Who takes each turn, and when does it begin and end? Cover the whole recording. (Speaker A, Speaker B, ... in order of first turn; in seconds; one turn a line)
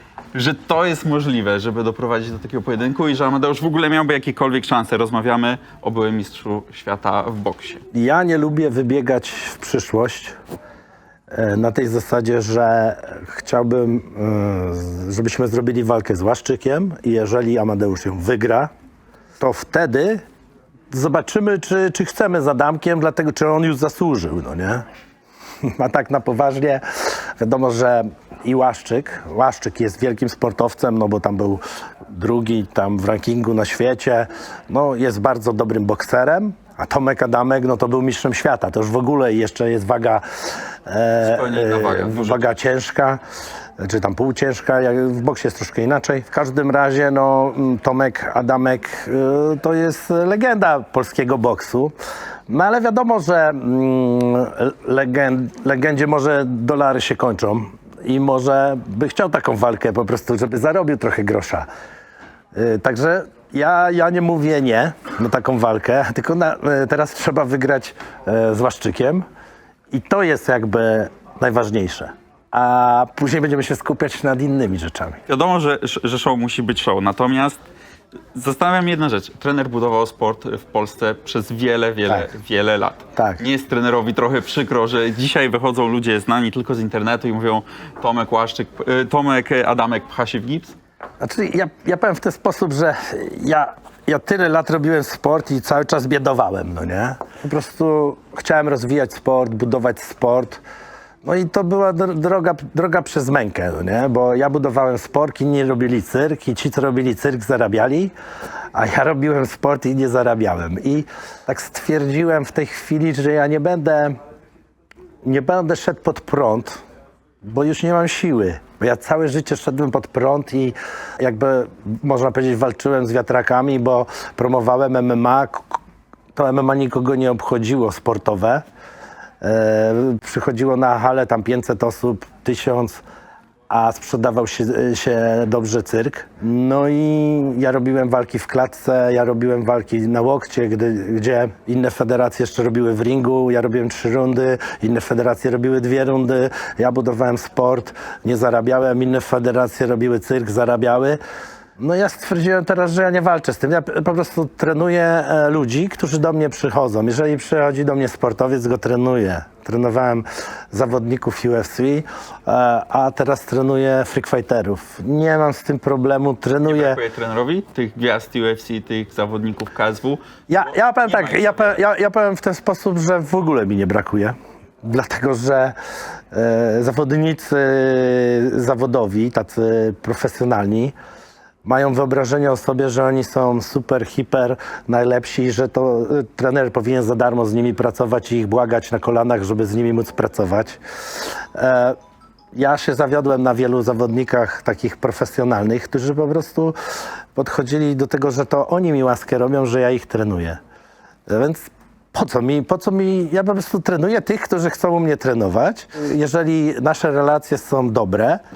Speaker A: 0.3-7.8
Speaker B: 7.9-10.4
Speaker B: 11.3-18.7
Speaker B: 19.4-20.2
Speaker B: 20.9-24.8
Speaker B: 25.7-43.2
Speaker A: 41.2-42.5
Speaker B: 43.8-51.9
Speaker B: 52.5-61.7
Speaker B: 62.5-69.2
Speaker B: 69.9-75.2
Speaker A: 75.3-77.6
Speaker A: 78.3-90.8
Speaker B: 83.1-83.4
Speaker B: 91.2-100.6
Speaker B: 101.2-108.1
Speaker B: 108.7-114.2
Speaker B: 115.2-116.8
Speaker B: 117.4-125.8
Speaker B: 126.3-128.6
Speaker B: 129.4-133.0
Speaker B: 133.7-151.2
Speaker B: 151.8-167.0
Speaker A: 166.6-171.8
Speaker B: 170.5-175.8
Speaker B: 176.3-180.9
Speaker B: 181.6-192.0
Speaker B: 192.5-196.8
Speaker B: 197.3-200.6
Speaker B: 201.3-208.4